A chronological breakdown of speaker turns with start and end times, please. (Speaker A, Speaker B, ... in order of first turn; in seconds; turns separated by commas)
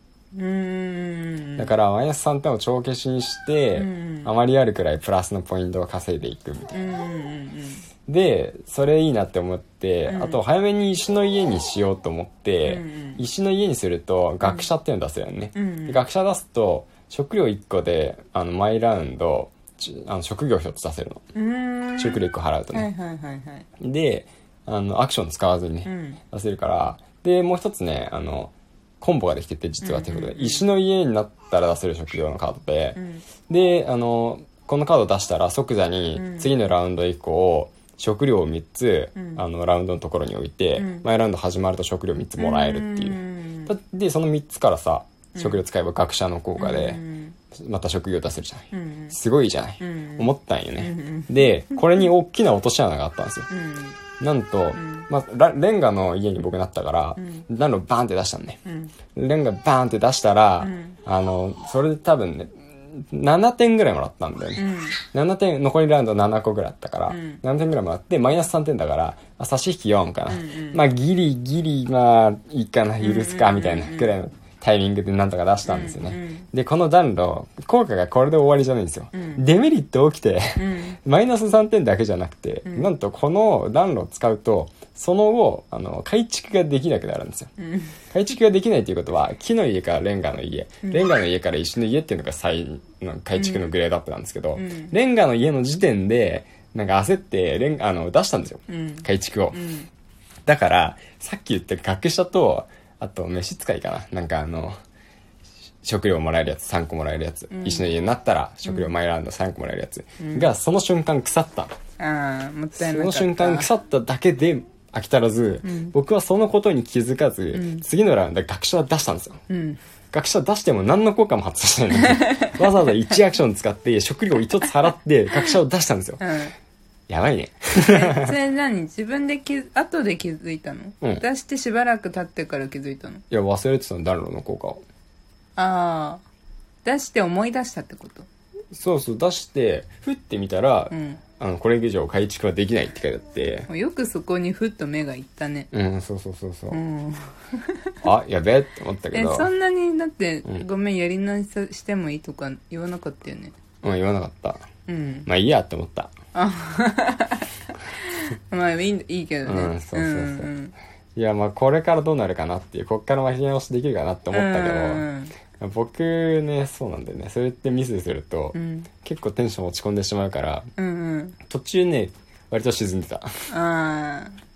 Speaker A: 0.3-1.7, Speaker B: 1.6-6.8, Speaker A: 3.8-4.3, Speaker A: 6.7-7.8, Speaker B: 8.1-21.2, Speaker A: 10.1-10.4, Speaker A: 12.7-13.2, Speaker A: 14.4-14.7, Speaker A: 15.6-16.0, Speaker A: 21.3-23.7, Speaker B: 22.0-22.9, Speaker B: 23.8-47.0, Speaker A: 25.9-26.2, Speaker A: 29.8-30.7, Speaker A: 33.0-33.2, Speaker A: 36.1-36.5, Speaker A: 39.2-39.4, Speaker A: 40.8-41.1, Speaker A: 42.4-43.7, Speaker A: 45.4-45.6, Speaker A: 46.6-47.4, Speaker B: 47.5-53.5, Speaker A: 48.7-49.1, Speaker A: 49.8-52.0, Speaker A: 53.5-54.0, Speaker B: 54.2-58.6, Speaker A: 54.8-55.1, Speaker A: 57.2-57.5, Speaker A: 58.6-58.9, Speaker B: 59.1-87.5, Speaker A: 60.6-61.0, Speaker A: 64.6-65.0, Speaker A: 67.1-67.4, Speaker A: 70.3-70.8, Speaker A: 73.0-74.1, Speaker A: 75.7-76.5, Speaker A: 79.1-79.4, Speaker A: 80.6-81.0, Speaker A: 87.6-88.0, Speaker B: 88.1-99.6, Speaker A: 90.8-91.1, Speaker A: 93.3-93.7, Speaker A: 94.6-94.9, Speaker A: 98.7-99.9, Speaker B: 100.5-104.8, Speaker B: 105.8-111.7, Speaker A: 107.5-107.9, Speaker A: 108.7-108.9, Speaker A: 110.2-110.5, Speaker A: 112.0-113.7, Speaker B: 112.8-119.4, Speaker A: 115.6-116.0, Speaker A: 117.5-117.8, Speaker A: 119.5-119.8, Speaker B: 120.1-126.2, Speaker A: 122.0-122.6, Speaker A: 126.2-126.5, Speaker B: 127.1-128.3, Speaker A: 127.8-133.2, Speaker B: 133.3-134.8, Speaker A: 135.6-136.2, Speaker A: 136.8-138.3, Speaker B: 138.7-143.7, Speaker A: 140.9-141.2, Speaker A: 143.7-145.7, Speaker B: 145.7-146.8, Speaker A: 146.7-148.0, Speaker B: 148.0-149.5, Speaker A: 149.1-153.5, Speaker B: 153.8-154.7, Speaker A: 154.9-155.3, Speaker B: 155.3-156.1, Speaker A: 156.3-160.8, Speaker B: 159.4-160.5, Speaker B: 161.2-165.1, Speaker A: 164.3-165.3, Speaker B: 165.6-170.7, Speaker A: 168.5-168.9, Speaker A: 170.8-171.4, Speaker B: 171.5-173.5, Speaker A: 173.5-174.4